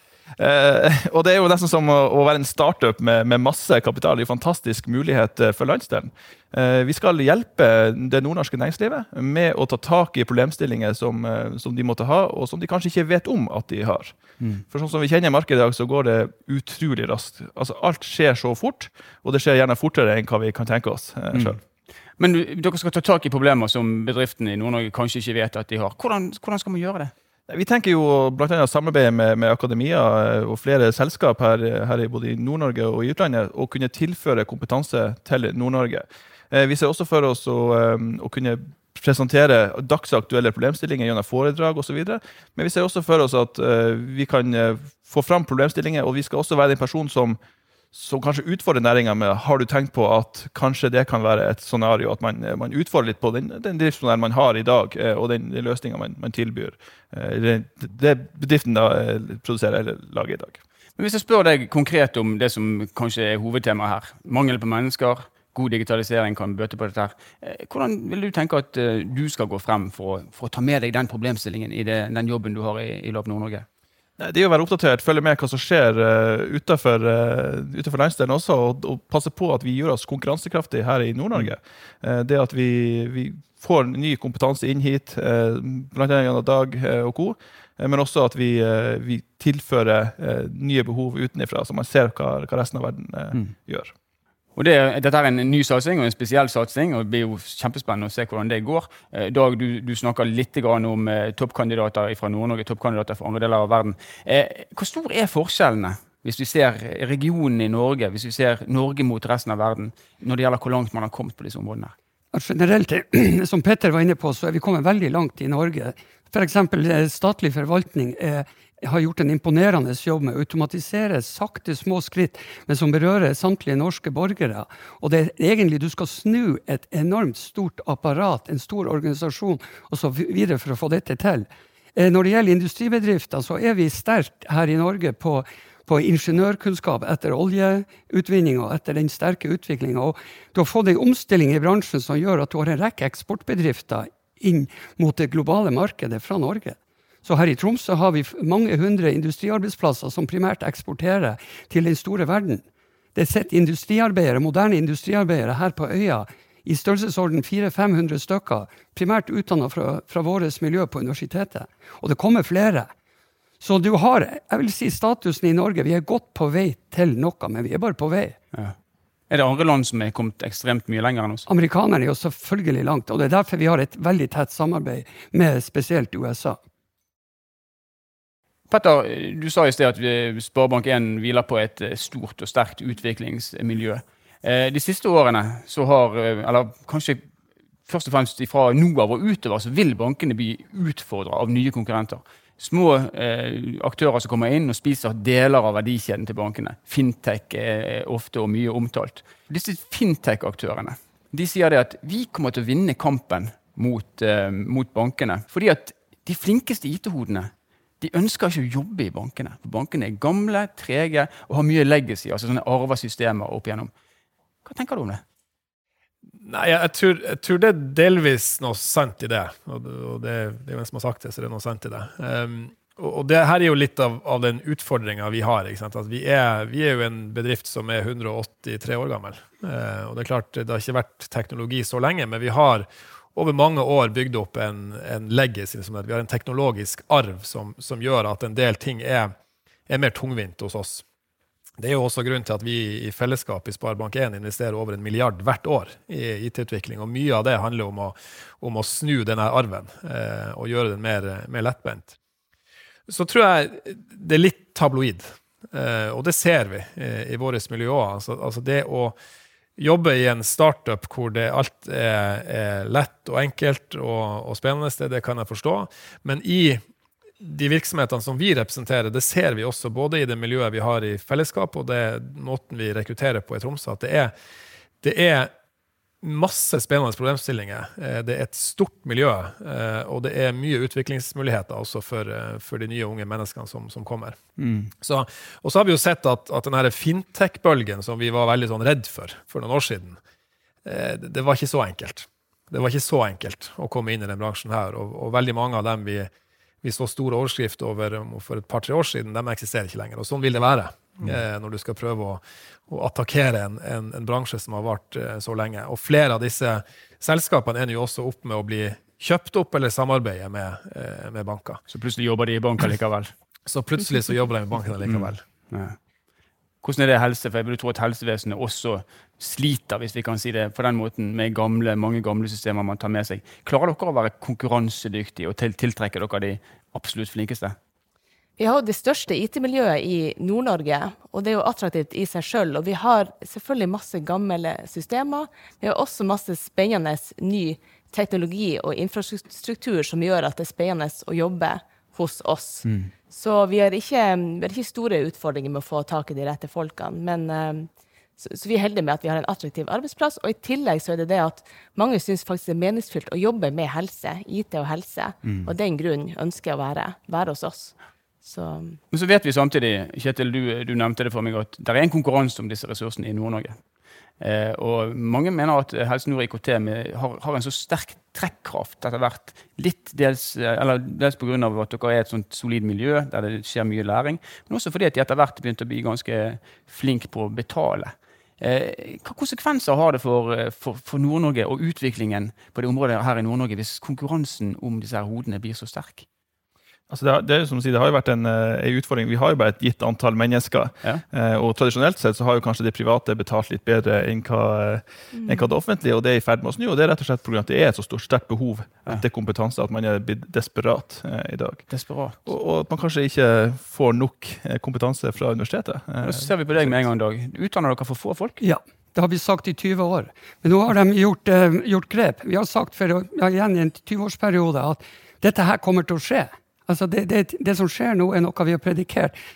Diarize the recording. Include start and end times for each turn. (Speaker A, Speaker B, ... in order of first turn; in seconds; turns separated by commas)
Speaker A: 0.4-21.6, Speaker B: 21.3-21.6, Speaker B: 22.2-27.1, Speaker A: 27.5-47.4, Speaker A: 47.9-60.6, Speaker B: 61.0-73.7, Speaker A: 74.2-93.9, Speaker B: 94.6-112.0, Speaker C: 112.3-152.6, Speaker C: 153.1-162.9, Speaker C: 163.6-168.4, Speaker B: 169.3-171.5, Speaker C: 171.5-176.6, Speaker B: 178.7-187.2, Speaker B: 187.9-213.9, Speaker B: 214.7-215.2, Speaker D: 216.4-239.3, Speaker D: 239.9-241.0, Speaker D: 241.8-252.2, Speaker D: 253.1-259.2, Speaker D: 259.8-266.8, Speaker D: 267.4-274.3, Speaker D: 275.0-275.5, Speaker D: 276.2-284.4, Speaker A: 284.6-284.9, Speaker D: 285.0-290.2, Speaker D: 290.8-296.3, Speaker D: 296.8-311.8, Speaker B: 311.9-313.3, Speaker D: 313.7-315.4, Speaker B: 315.1-316.0, Speaker B: 316.8-327.8, Speaker E: 328.6-359.0, Speaker B: 342.8-343.1, Speaker B: 359.1-363.8, Speaker B: 364.4-386.2, Speaker A: 387.1-407.0, Speaker E: 395.3-395.7, Speaker B: 401.9-402.4, Speaker B: 406.2-408.6, Speaker C: 408.6-419.4